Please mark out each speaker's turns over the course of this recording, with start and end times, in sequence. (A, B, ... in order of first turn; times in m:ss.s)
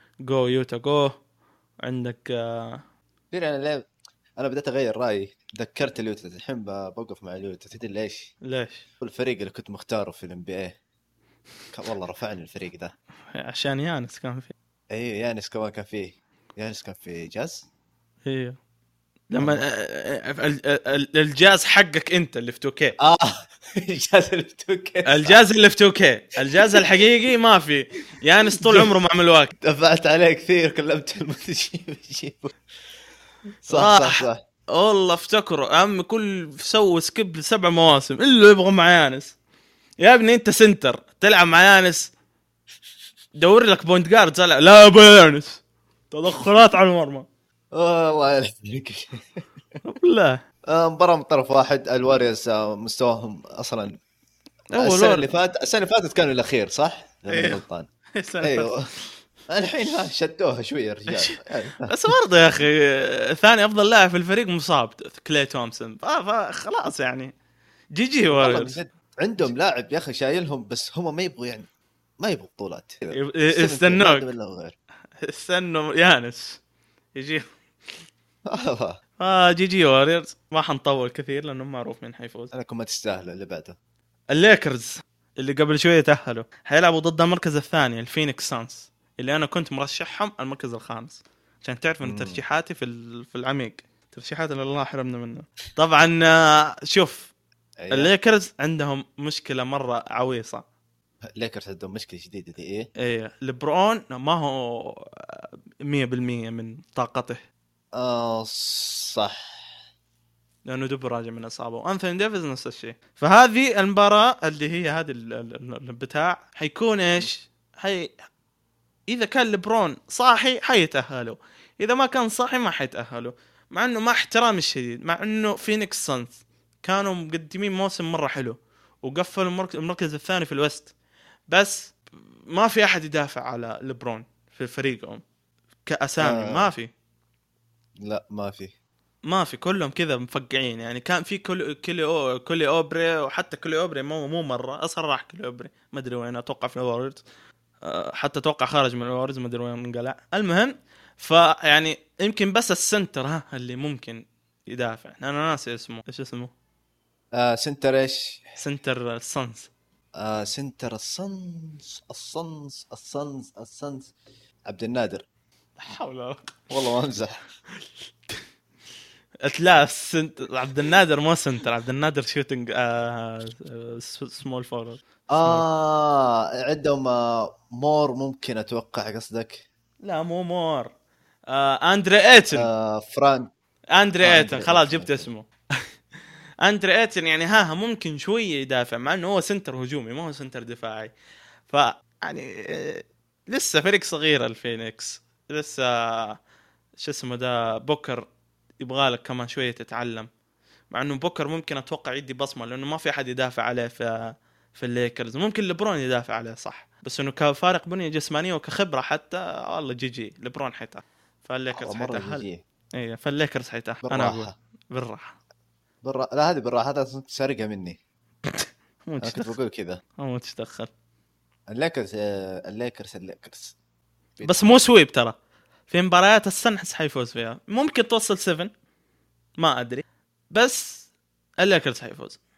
0:00.2-0:01.1 A
0:01.8-0:02.8 A
0:03.3-0:03.9 B
0:04.4-0:08.3 B
0:08.4-0:08.8 A
0:09.0-0:10.8 B
0:11.7-0:12.9 B
0:13.3-0:14.5 A
0:14.9-0:17.6 B
0:18.2-0:18.6 A
0:19.3-0:23.0 A
0:23.0-0:25.4 B
0:25.0-0:29.5 A
0:26.6-0:26.9 B
0:28.6-0:28.9 B
0:29.6-0:32.5 B
0:33.6-0:34.4 B
0:33.7-0:39.4 A
0:40.0-0:42.1 A
0:43.4-0:47.3 A
0:47.7-0:49.4 B
0:49.8-0:50.4 A
0:50.7-0:54.0 B
0:54.7-0:55.3 A
0:54.8-0:57.9 B
0:57.3-0:57.6 A
0:58.1-0:58.7 A
0:58.4-0:58.9 B
0:59.5-1:01.9 B
1:01.1-1:07.3 A
1:07.9-1:08.8 A
1:08.3-1:11.7 B
1:12.2-1:14.7 B
1:13.1-1:14.3 A
1:15.2-1:16.6 A
1:17.1-1:17.4 A
1:18.4-1:19.0 B
1:19.2-1:22.5 A
1:22.5-1:23.8 B
1:24.3-1:37.3 A
1:32.0-1:32.4 B
1:37.8-1:38.1 B
1:37.9-1:40.6 A
1:41.4-1:42.9 B
1:43.0-1:47.4 A
1:47.9-1:49.7 B
1:50.6-1:58.1 A
1:59.1-2:10.9 A
2:11.5-2:12.0 A
2:12.5-2:15.2 A
2:15.8-2:16.9 A
2:16.2-2:16.7 B
2:18.0-2:18.7 B
2:19.2-2:27.2 A
2:27.8-2:36.5 A
2:37.4-2:38.4 B
2:38.6-2:39.7 A
2:40.2-2:44.1 B
2:44.7-2:45.2 B
2:45.8-2:46.7 A
2:46.7-2:47.3 B
2:49.4-2:55.6 A
2:55.3-2:59.6 B
3:00.0-3:00.9 A
3:01.5-3:02.7 A
3:02.5-3:03.5 B
3:03.9-3:05.5 A
3:04.2-3:05.3 B
3:06.6-3:11.1 A
3:11.7-3:16.4 A
3:17.0-3:18.2 A
3:18.8-3:20.3 A
3:20.9-3:35.4 A
3:31.7-3:32.6 B
3:34.0-3:34.5 B
3:36.0-3:38.0 B
3:38.5-3:39.5 A
3:39.2-3:40.0 B
3:40.2-3:40.9 A
3:41.7-3:43.7 B
3:44.4-3:44.7 B
3:44.4-3:45.4 A
3:45.9-3:48.7 A
3:49.6-3:51.1 A
3:51.6-3:52.4 A